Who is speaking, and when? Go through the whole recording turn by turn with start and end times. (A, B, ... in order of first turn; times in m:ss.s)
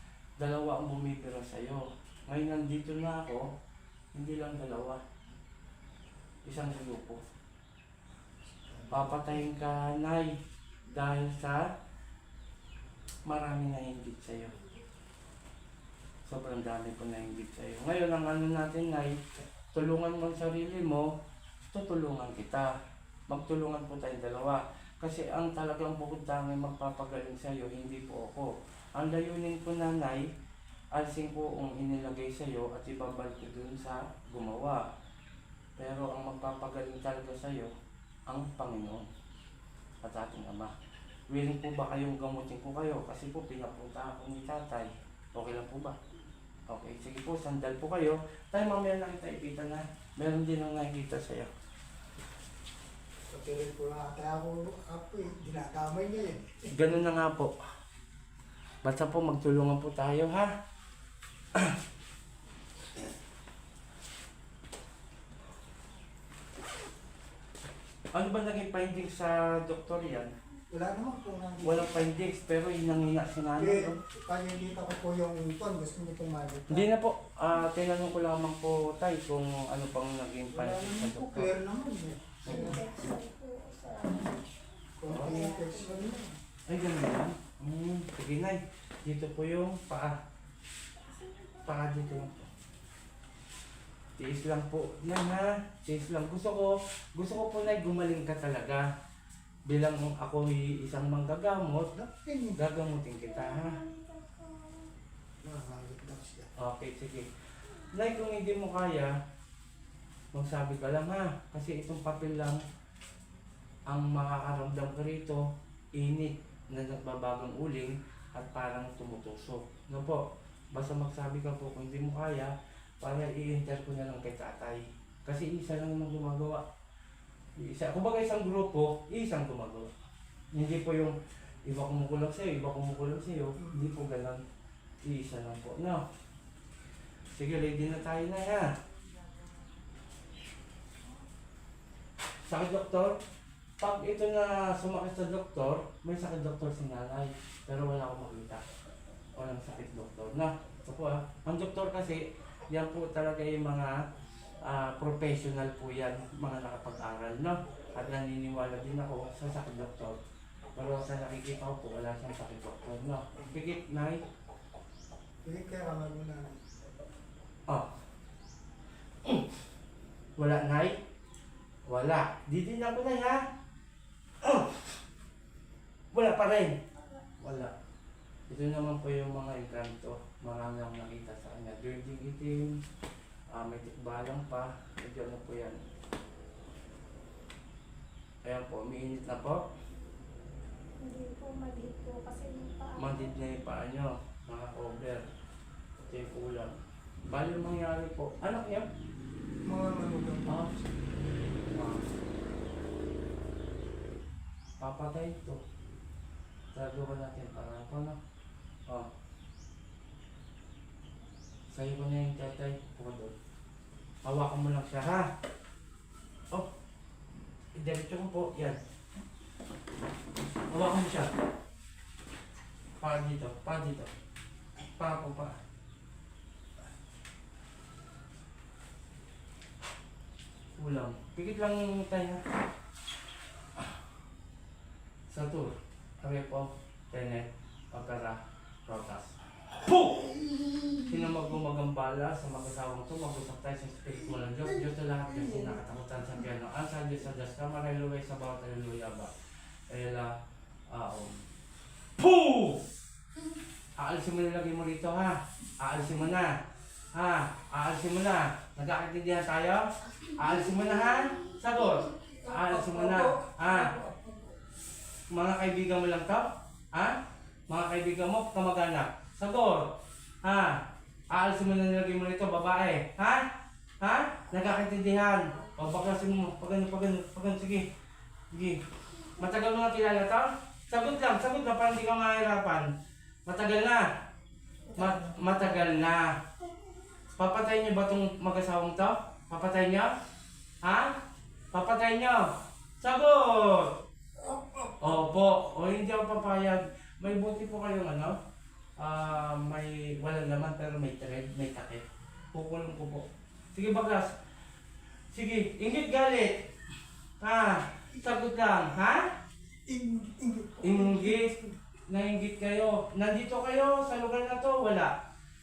0:00.4-0:03.5 A
0:04.1-0:05.0 A
0:06.4-0:07.2 A
0:08.5-0:09.4 B
0:08.9-0:10.4 A
0:10.9-0:11.6 A
0:13.3-0:14.5 A
0:16.3-0:19.2 A
0:19.7-0:21.1 A
0:21.7-0:22.7 A
0:23.3-0:30.3 A
0:30.9-0:34.8 A
0:35.8-0:37.7 A
0:38.3-0:39.1 A
0:40.0-0:40.7 A
0:41.3-0:46.0 A
0:46.7-0:51.5 A
0:53.3-0:56.7 B
0:56.7-0:57.5 A
0:58.8-1:00.5 A
1:08.1-1:10.3 A
1:10.7-1:12.0 B
1:11.6-1:14.0 A
1:13.6-1:16.9 B
1:16.7-1:21.5 A
1:20.5-1:22.9 B
1:22.5-1:22.8 A
1:22.5-1:24.5 C
1:25.0-1:26.4 B
1:25.1-1:25.5 A
1:25.1-1:26.2 C
1:26.7-1:30.2 A
1:31.0-1:32.3 C
1:31.6-1:32.5 A
1:34.2-1:38.9 A
1:39.7-1:41.9 A
1:41.9-1:42.6 B
1:42.6-1:43.8 A
1:43.3-1:44.9 C
1:45.4-1:46.5 B
1:46.6-1:47.3 A
1:47.9-1:49.1 A
1:50.3-1:52.6 A
1:53.9-1:55.4 A
1:56.0-2:06.6 A
2:07.6-2:09.9 A
2:10.5-2:14.4 A
2:15.0-2:16.0 A
2:17.3-2:18.7 A
2:22.5-2:23.2 A
2:23.8-2:28.6 A
2:29.4-2:34.0 A
2:34.6-2:40.2 A
2:40.8-2:44.2 A
2:45.4-2:46.6 B
2:49.2-2:49.5 A
2:50.4-2:51.0 A
2:51.9-2:53.4 A
2:54.4-2:55.0 A
2:56.1-2:56.8 A
2:57.4-2:57.7 A
2:58.5-3:02.8 A
3:03.5-3:05.8 A
3:08.4-3:09.6 A
3:11.0-3:13.4 C
3:13.0-3:15.2 A
3:16.0-3:16.8 A
3:17.3-3:18.9 A
3:19.6-3:20.6 B
3:20.5-3:20.7 A
3:21.7-3:22.1 A
3:24.8-3:25.6 A
3:26.7-3:28.2 A
3:31.7-3:33.3 A
3:34.2-3:35.3 A
3:37.8-3:38.8 A
3:40.7-3:41.3 A
3:43.0-3:44.1 A
3:45.0-3:45.6 A
3:50.8-3:52.4 A
3:55.3-4:00.3 A
4:00.0-4:01.2 B
4:01.1-4:09.3 A
4:04.6-4:05.8 B
4:09.9-4:10.3 A
4:10.9-4:11.4 A
4:12.2-4:12.8 A
4:14.0-4:16.5 A
4:17.2-4:19.8 A
4:20.2-4:24.6 B
4:20.4-4:23.9 A
4:25.3-4:27.2 A
4:27.7-4:29.9 A
4:30.4-4:30.8 A
4:31.3-4:33.4 A
4:34.0-4:37.9 A
4:38.5-4:38.8 A
4:39.4-4:42.9 A
4:43.5-4:44.0 A
4:44.9-4:45.4 B
4:45.0-4:46.3 A
4:47.4-4:50.1 A
4:50.8-4:51.1 A
4:51.7-4:52.5 A
4:53.0-4:53.9 A
4:54.4-4:55.2 B
4:55.0-4:58.4 A
4:59.0-5:04.3 A
5:05.3-5:06.6 A
5:07.4-5:09.2 A
5:09.9-5:11.8 B
5:10.8-5:11.5 A
5:12.1-5:15.1 A